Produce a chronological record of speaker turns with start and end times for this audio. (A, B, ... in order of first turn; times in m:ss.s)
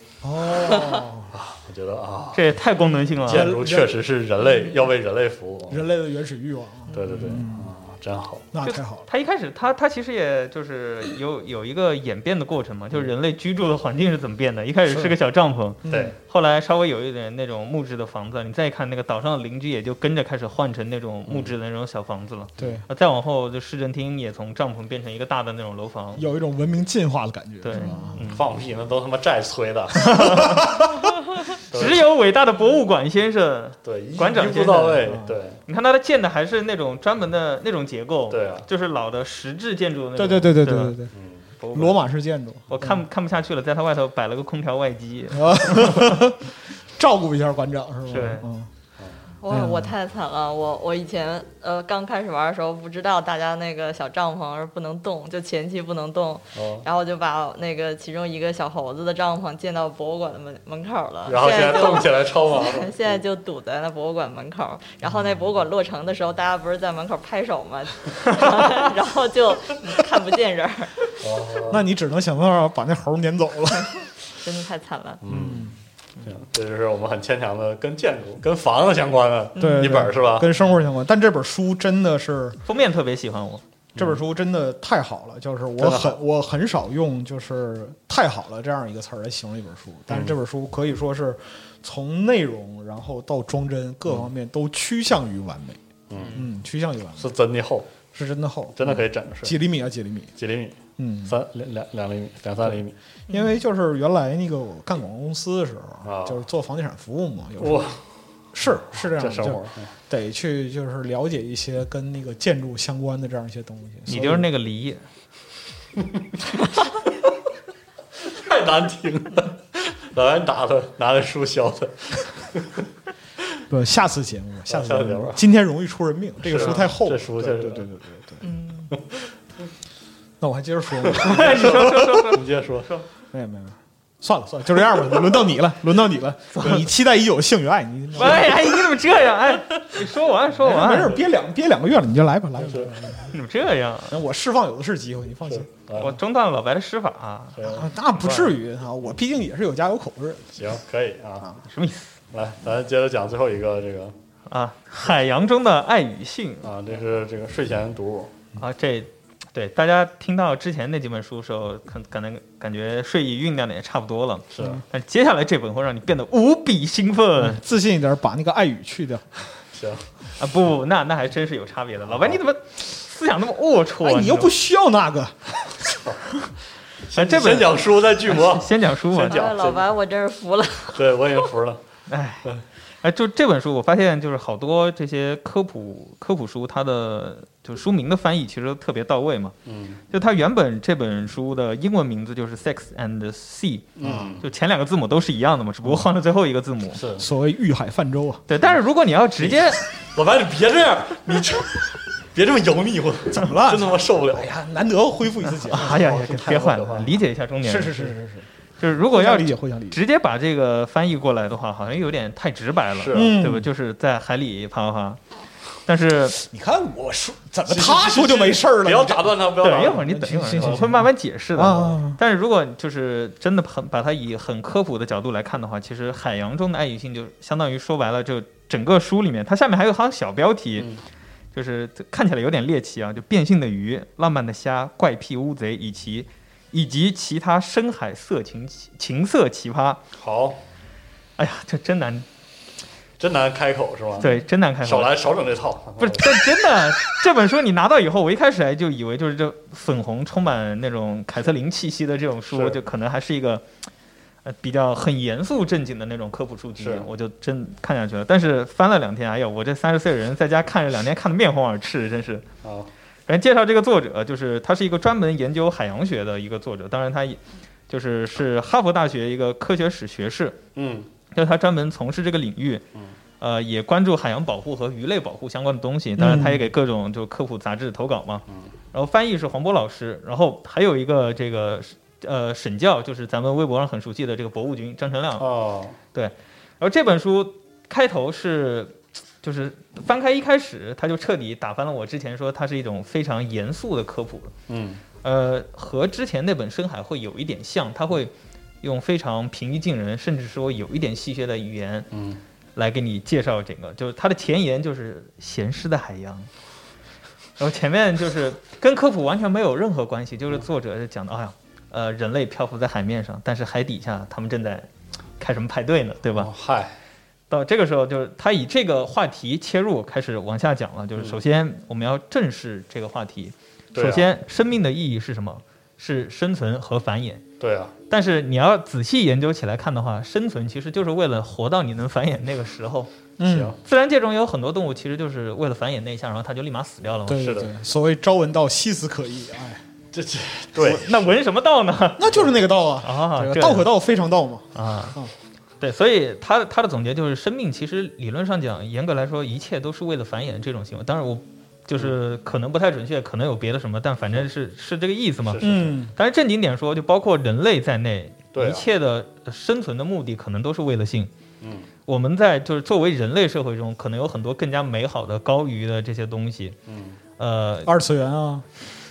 0:00.2-0:01.3 A
0:01.3-0:02.5 B
0:02.3-0:03.6 C
0:03.2-0:05.8 B
0:03.3-0:04.0 A
0:05.7-0:07.7 A
0:06.9-0:08.4 B
0:08.5-0:09.0 A
0:08.6-0:26.2 C
0:14.9-0:15.1 A
0:15.8-0:16.1 A
0:15.9-0:16.2 B
0:21.3-0:21.5 B
0:22.6-0:22.9 A
0:26.2-0:28.2 A
0:27.6-0:28.5 C
0:28.3-0:30.6 B
0:30.0-0:35.2 C
0:30.1-0:31.1 A
0:31.7-0:32.1 B
0:33.8-0:35.6 B
0:35.1-0:35.4 A
0:35.7-0:41.0 C
0:38.3-0:38.7 B
0:40.2-0:41.1 A
0:41.1-0:41.5 B
0:41.6-0:42.0 C
0:41.7-0:42.9 A
0:42.7-0:46.2 C
0:45.3-0:48.7 A
0:48.1-0:48.5 C
0:49.0-0:49.2 B
0:49.4-1:11.1 D
0:49.5-0:49.9 A
0:56.5-0:56.9 B
1:01.3-1:03.2 B
1:11.2-1:11.9 B
1:11.7-1:14.1 A
1:14.3-1:15.2 D
1:15.2-1:20.6 B
1:15.3-1:15.8 A
1:19.6-1:22.6 A
1:19.6-1:20.1 D
1:22.7-1:23.6 C
1:24.0-1:24.2 B
1:24.0-1:37.3 A
1:25.8-1:26.2 B
1:30.1-1:30.4 B
1:36.1-1:36.5 B
1:37.2-1:37.9 B
1:38.1-1:40.3 A
1:38.8-1:39.6 B
1:40.4-1:43.0 B
1:41.0-1:41.4 A
1:43.3-1:47.9 A
1:46.0-1:46.4 B
1:47.6-1:48.0 B
1:48.5-1:54.4 A
1:48.9-1:49.9 B
1:54.1-1:55.0 C
1:58.2-2:02.9 B
2:03.7-2:08.4 A
2:04.7-2:05.4 B
2:06.4-2:07.9 B
2:08.4-2:08.9 D
2:10.4-2:12.4 A
2:11.2-2:13.0 C
2:11.3-2:12.9 B
2:13.3-2:18.8 A
2:16.5-2:16.9 C
2:18.1-2:21.3 C
2:20.5-2:23.4 A
2:22.6-2:23.0 B
2:23.3-2:24.2 C
2:24.1-2:25.7 A
2:25.4-2:26.2 B
2:26.0-2:27.6 C
2:27.6-2:28.6 B
2:27.6-2:30.4 A
2:30.6-2:31.5 B
2:31.7-2:32.2 C
2:32.3-2:34.2 B
2:34.5-2:36.7 C
2:36.6-2:38.4 B
2:38.6-2:47.6 C
2:44.5-2:44.8 B
2:47.4-2:49.2 A
2:49.7-2:50.1 B
2:50.4-2:54.6 C
2:52.1-2:52.4 B
2:54.0-2:55.6 A
2:57.0-2:59.9 B
2:57.1-2:59.5 C
2:59.2-3:01.0 D
3:00.9-3:01.8 B
3:02.1-3:02.5 C
3:03.0-3:09.6 C
3:09.7-3:10.0 B
3:10.1-3:17.0 C
3:14.0-3:14.5 B
3:14.0-3:14.3 A
3:17.0-3:17.3 B
3:17.1-3:18.4 A
3:18.5-3:19.8 C
3:19.4-3:24.5 B
3:23.3-3:26.5 A
3:25.6-3:28.1 C
3:25.7-3:27.2 B
3:27.6-3:28.5 A
3:28.8-3:35.2 C
3:29.1-3:30.0 A
3:33.0-3:33.3 B
3:33.1-3:33.7 A
3:35.9-3:36.4 C
3:36.4-3:42.2 A
3:37.7-3:40.9 B
3:39.6-3:50.9 C
3:51.5-4:00.0 C
4:00.1-4:00.6 B
4:01.4-4:02.2 C
4:03.2-4:06.4 B
4:04.2-4:05.1 C
4:06.0-4:13.6 C
4:12.5-4:12.8 B
4:14.4-4:22.4 C
4:16.8-4:17.1 B
4:22.6-4:22.9 B
4:23.3-4:30.6 C
4:30.8-4:31.1 B
4:31.3-4:32.8 C
4:33.4-4:45.5 C
4:36.2-4:36.7 A
4:45.4-4:46.0 B
4:46.1-4:54.5 C
4:54.7-4:55.0 B
4:55.2-5:02.1 C
5:02.1-5:02.4 B
5:02.8-5:06.5 C
5:07.6-5:14.9 C
5:15.4-5:16.5 C
5:16.3-5:17.0 B
5:17.5-5:27.4 C
5:23.9-5:24.3 B
5:27.6-5:27.9 B
5:28.1-5:33.1 C
5:33.4-5:33.7 A
5:33.4-5:33.8 B
5:33.8-5:37.5 C
5:37.3-5:39.8 A
5:37.4-5:37.7 B
5:40.1-5:41.3 B
5:40.7-5:43.9 C
5:42.2-5:45.3 A
5:44.8-5:45.2 C
5:45.8-6:01.3 C
5:55.4-5:56.0 B
5:55.6-5:56.1 A
5:58.5-5:58.9 B
6:01.6-6:01.9 B
6:02.1-6:06.8 C
6:06.9-6:07.2 B
6:07.4-6:08.0 C
6:07.9-6:08.6 A